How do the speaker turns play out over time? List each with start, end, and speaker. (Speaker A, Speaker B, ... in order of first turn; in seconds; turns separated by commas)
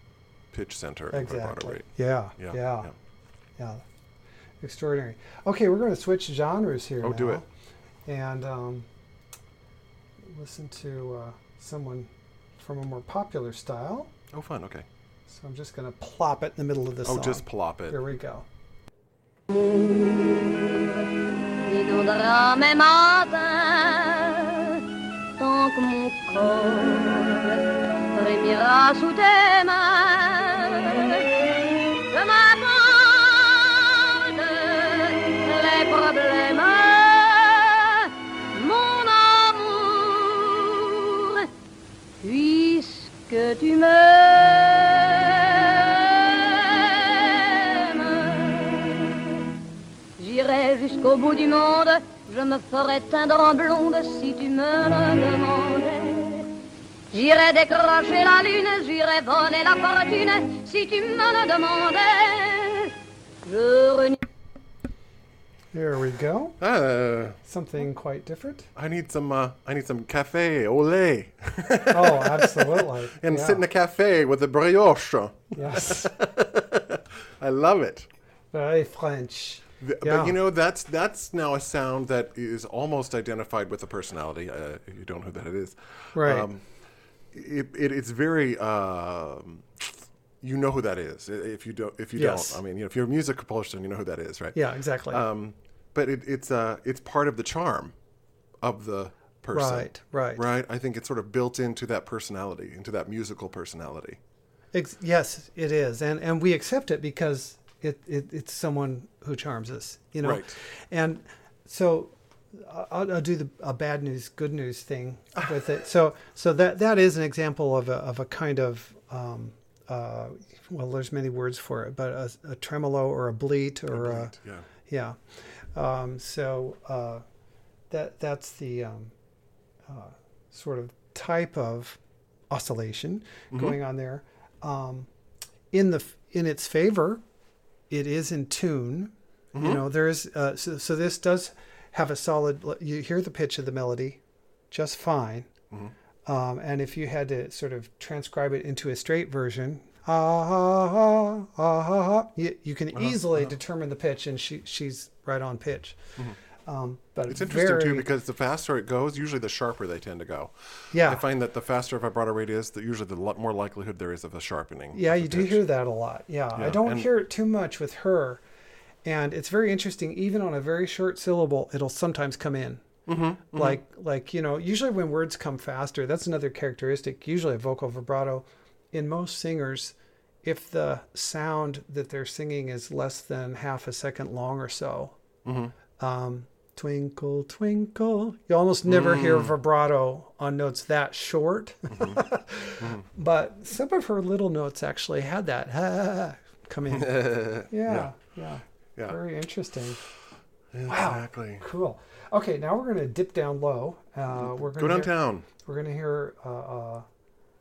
Speaker A: 0.5-2.9, Speaker B: 1.1-2.9, Speaker B: 3.6-3.8, Speaker B: 4.6-7.5, Speaker A: 7.0-7.4, Speaker B: 8.1-8.9, Speaker B: 10.2-14.1, Speaker A: 14.3-14.9, Speaker B: 15.3-18.5, Speaker A: 17.0-18.0, Speaker C: 19.6-20.6, Speaker C: 21.6-24.8, Speaker C: 25.4-31.4, Speaker C: 32.1-41.5, Speaker C: 42.2-49.3, Speaker C: 50.2-56.5, Speaker C: 57.1-64.2, Speaker B: 65.7-66.6, Speaker A: 66.6-67.4, Speaker B: 67.4-68.7, Speaker A: 68.7-78.1, Speaker B: 71.9-73.6, Speaker B: 75.5-76.1, Speaker B: 78.5-80.3, Speaker A: 79.8-86.7, Speaker B: 86.1-86.5, Speaker A: 87.3-97.9, Speaker B: 92.2-92.6, Speaker B: 94.5-95.2, Speaker A: 98.6-104.2, Speaker B: 99.5-100.4, Speaker B: 104.7-127.2, Speaker A: 110.2-110.6, Speaker A: 123.9-124.7, Speaker B: 127.9-129.1, Speaker B: 129.9-132.0, Speaker B: 132.5-135.1, Speaker A: 133.5-133.8, Speaker B: 135.7-137.2, Speaker B: 137.9-145.5, Speaker A: 139.5-139.8, Speaker B: 146.2-156.0, Speaker A: 152.9-153.5, Speaker B: 156.5-158.0, Speaker A: 157.3-165.6, Speaker B: 160.9-161.2, Speaker B: 164.9-168.4, Speaker A: 166.5-167.1, Speaker B: 169.0-172.8, Speaker A: 173.1-173.8, Speaker B: 173.5-185.2, Speaker A: 185.4-185.7, Speaker B: 186.0-200.0, Speaker A: 188.8-189.5, Speaker A: 191.9-192.2, Speaker A: 192.8-193.1, Speaker A: 196.9-198.2, Speaker A: 200.7-201.6, Speaker B: 200.8-207.1, Speaker A: 204.3-205.4